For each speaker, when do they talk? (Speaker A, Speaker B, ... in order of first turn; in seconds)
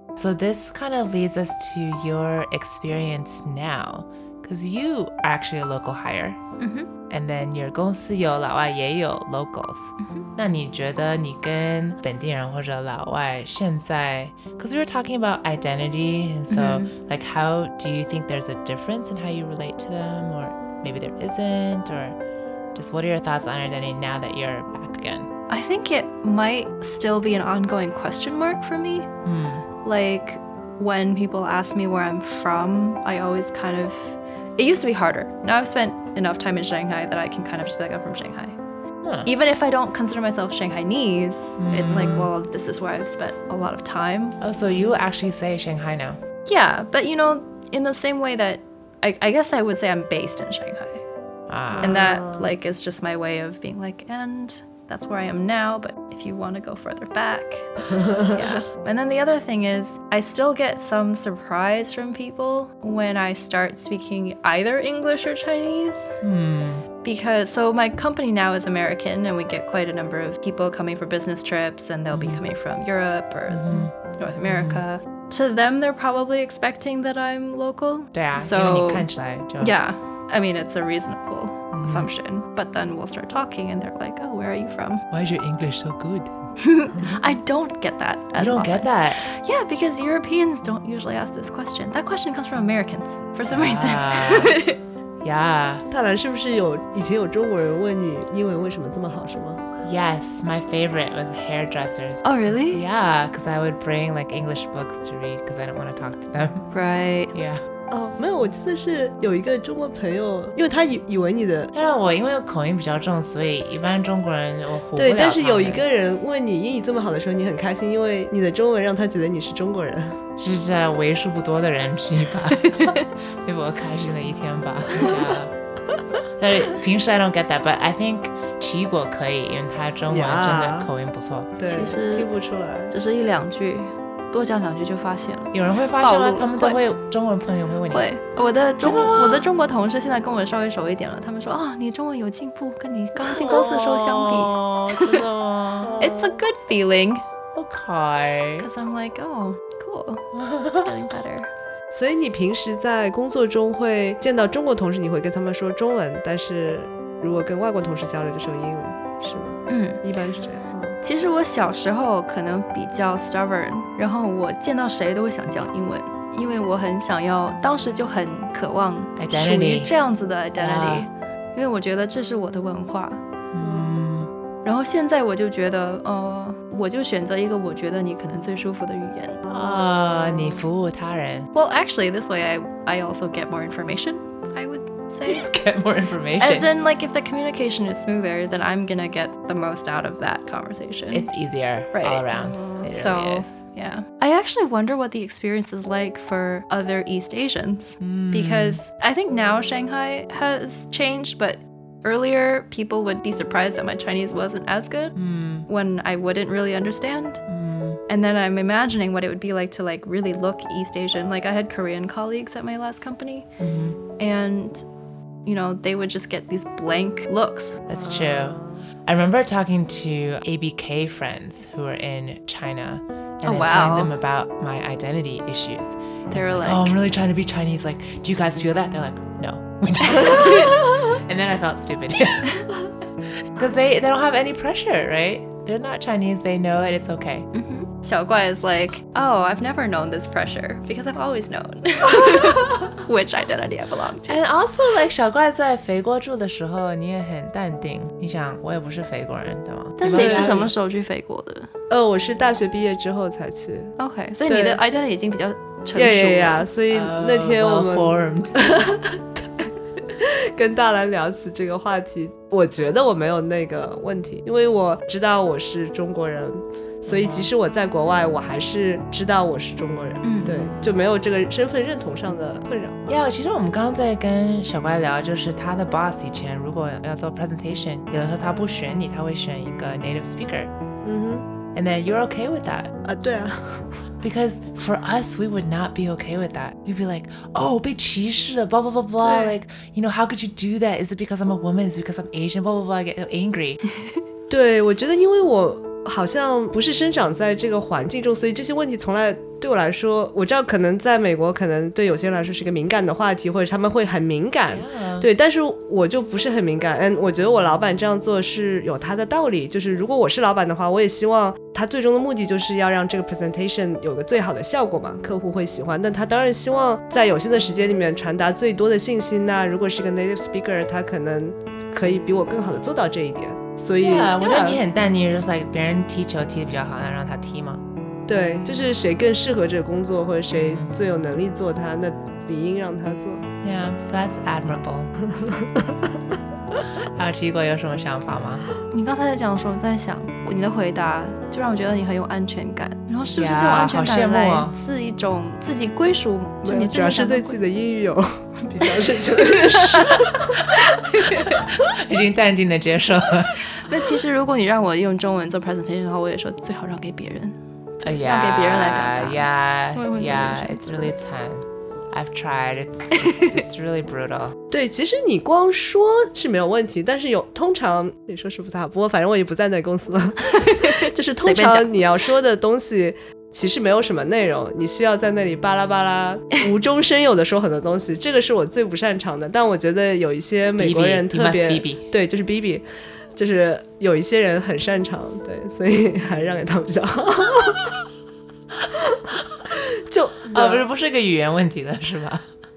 Speaker A: 0.2-6.4, 7.1-22.2, 22.8-25.3, 29.2-29.7, 39.0-39.3, 41.6-42.3, 44.4-46.2, 51.5-52.1, 66.2-66.8, 72.1-72.4, 73.5-73.9, 74.5-74.8, 78.1-79.8, 81.7-82.1, 85.1-86.3, 88.3-89.2, 93.5-94.6, 95.2-95.8, 99.8-106.7, 107.3-107.6, 111.7-115.8, 120.4-125.5, 126.4-131.5, 135.5-138.1, 138.8-139.5, 143.3-146.2, 147.5-148.7, 150.3-150.9, 169.2-169.9, 170.6-171.1, 173.5-174.3, 179.5-181.5, 185.2-186.7, 191.1-193.6, 198.0-198.8, 205.2-205.7, 207.5-208.0, 213.6-214.0, 217.9-232.7, 233.5-237.5, 244.2-250.7, 256.9-258.6, 267.1-267.5, 273.1-280.7, 281.8-282.9, 284.2-293.8, 304.7-305.3, 324.0-327.8, 330.5-330.9, 333.6-335.1, 337.1-338.7, 343.4-344.8, 351.4-353.6, 358.0-364.6, 380.8-382.1, 390.5-392.4
Speaker B: 6.6-6.9, 10.0-10.3, 16.5-16.9, 25.5-29.1, 29.8-38.5, 39.2-44.4, 46.5-51.0, 51.8-57.7, 58.3-66.1, 67.0-85.0, 86.6-94.8, 102.2-102.8, 106.7-107.3, 122.6-123.0, 131.7-132.3, 132.9-136.8, 137.9-145.3, 146.0-147.2, 148.6-151.5, 159.7-160.0, 161.0-173.2, 174.6-179.4, 181.5-185.5, 186.4-191.3, 191.9-205.2, 205.7-207.4, 208.1-213.5, 214.2-214.8, 215.4-217.8, 223.4-224.1, 226.3-227.0, 237.5-244.4, 250.0-251.7, 254.0-256.7, 270.2-270.7, 338.9-347.6, 349.5-351.6, 353.8-361.1, 363.1-363.6, 370.5-371.9
Speaker C: 51.7-52.5, 95.9-99.6, 107.9-111.7, 115.0-120.2, 130.1-130.9, 131.6-132.9, 143.4-143.6, 145.8-146.4, 151.9-161.0, 173.6-173.9, 217.9-218.8, 250.1-250.6, 251.9-253.9, 254.5-254.8, 255.9-259.6, 260.5-273.0, 281.0-281.4, 283.0-283.9, 289.2-289.6, 294.5-324.8, 328.3-333.4, 346.6-350.3, 364.7-382.8, 383.4-387.9, 390.1-390.9